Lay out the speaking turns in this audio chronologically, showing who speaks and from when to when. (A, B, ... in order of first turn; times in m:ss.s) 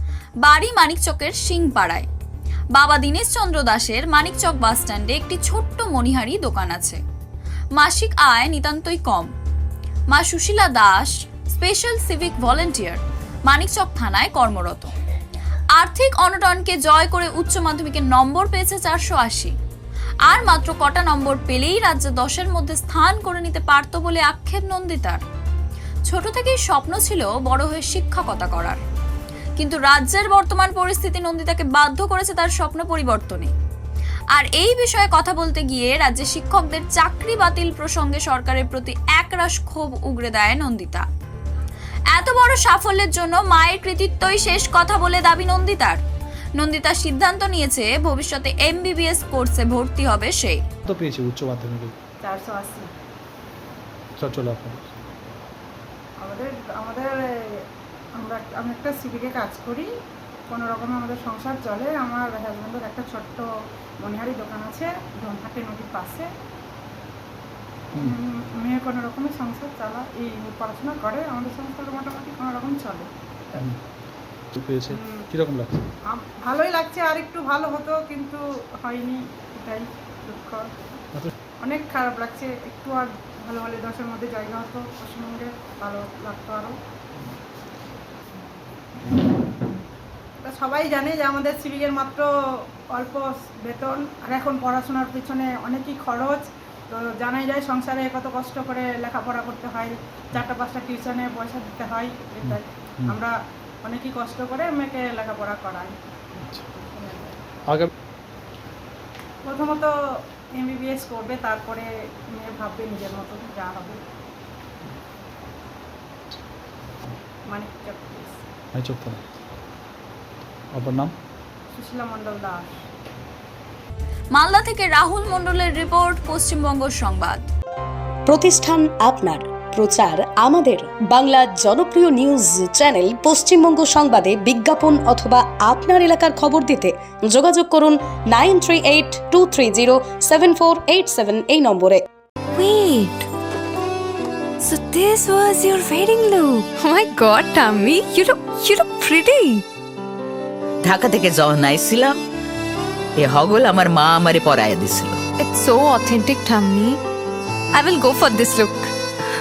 0:00.4-0:02.0 A
0:02.7-0:07.0 A
0:07.8-0:09.3 A
0:10.1-0:14.9 A
0:15.7-0:19.5 A
0:20.3-0:25.2 A
0:26.1-0:28.8 A
0:29.6-0:33.5 A
0:34.3-0:41.0 A
0:42.1-0:46.0 A
0:46.6-0:50.6 A
0:50.8-0:51.9 B
0:52.2-0:52.9 C
0:54.2-0:54.9 B
0:56.2-0:57.2 C
0:58.2-0:59.9 C
1:00.5-1:06.3 C
1:08.0-1:13.1 C
1:13.5-1:13.8 B
1:14.5-1:15.9 B
1:14.9-1:15.2 C
1:16.0-1:20.6 C
1:21.6-1:26.8 C
1:30.4-1:32.3 C
1:32.9-1:43.3 C
1:42.4-1:43.2 B
1:43.8-1:46.0 C
1:46.4-1:46.7 B
1:46.8-1:47.4 C
1:49.4-1:49.9 C
1:50.6-1:54.0 C
1:57.5-1:58.4 C
1:58.7-1:59.2 B
2:00.7-2:01.1 B
2:01.7-2:02.7 C
2:04.3-2:07.5 A
2:08.2-2:22.0 D
2:22.5-2:23.3 E
2:24.6-2:29.6 E
2:30.8-2:32.2 F
2:33.2-2:35.2 F
2:35.4-2:37.0 E
2:37.7-2:38.9 E